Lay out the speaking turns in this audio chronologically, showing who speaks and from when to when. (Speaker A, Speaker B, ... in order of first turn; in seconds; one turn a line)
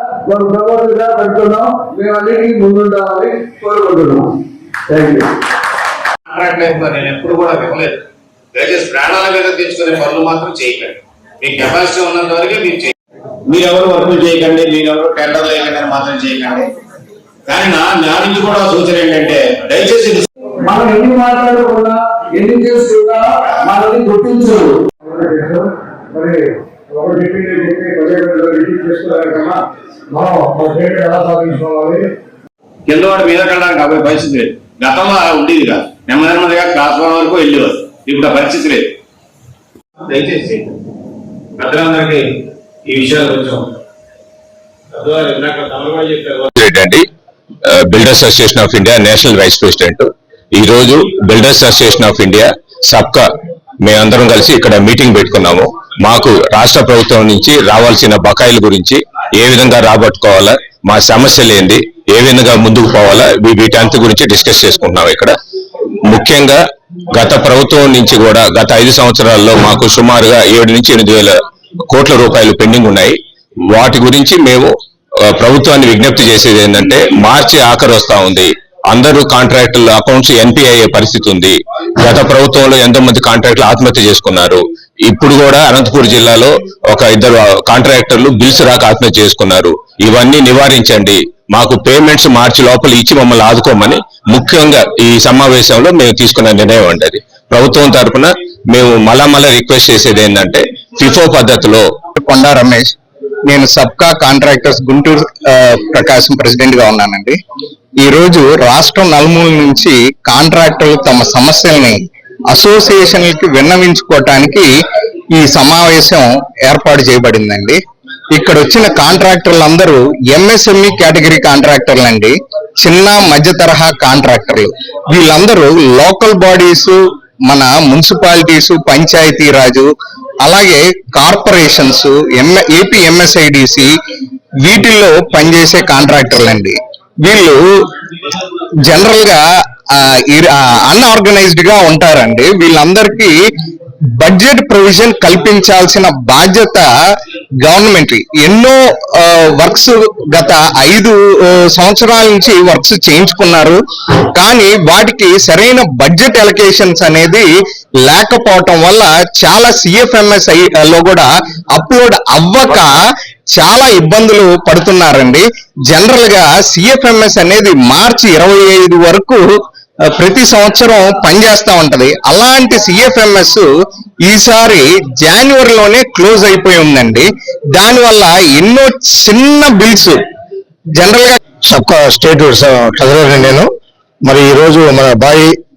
Speaker A: 0.2-4.3
Speaker A: 4.9-5.3
Speaker B: 6.3-8.0
Speaker B: 8.5-12.9
Speaker B: 13.4-16.7
Speaker B: 17.5-20.3
Speaker A: 20.6-24.8
Speaker C: 25.1-25.6
Speaker C: 26.9-29.6
Speaker C: 30.1-32.0
Speaker B: 32.9-38.9
Speaker B: 40.0-40.7
Speaker B: 41.6-42.3
Speaker B: 42.9-43.7
Speaker B: 44.9-46.5
Speaker D: 46.6-47.0
Speaker D: 47.6-53.2
Speaker D: 53.8-65.3
Speaker D: 66.1-66.6
Speaker D: 67.1-71.3
Speaker D: 71.9-73.2
Speaker D: 73.7-74.7
Speaker D: 75.2-101.8
Speaker E: 102.2-102.9
Speaker E: 103.5-107.4
Speaker E: 108.0-112.0
Speaker E: 112.5-114.7
Speaker E: 115.3-117.8
Speaker E: 118.3-129.9
Speaker E: 130.4-133.9
Speaker E: 134.6-137.6
Speaker E: 138.8-139.4
Speaker E: 139.9-143.3
Speaker E: 144.2-146.8
Speaker E: 147.6-153.8
Speaker E: 154.4-157.5
Speaker E: 158.1-163.0
Speaker E: 163.5-169.4
Speaker E: 170.1-173.7
Speaker E: 174.2-177.2
Speaker E: 177.8-180.2
Speaker E: 181.0-181.4
Speaker C: 181.7-183.7
Speaker C: 184.2-185.5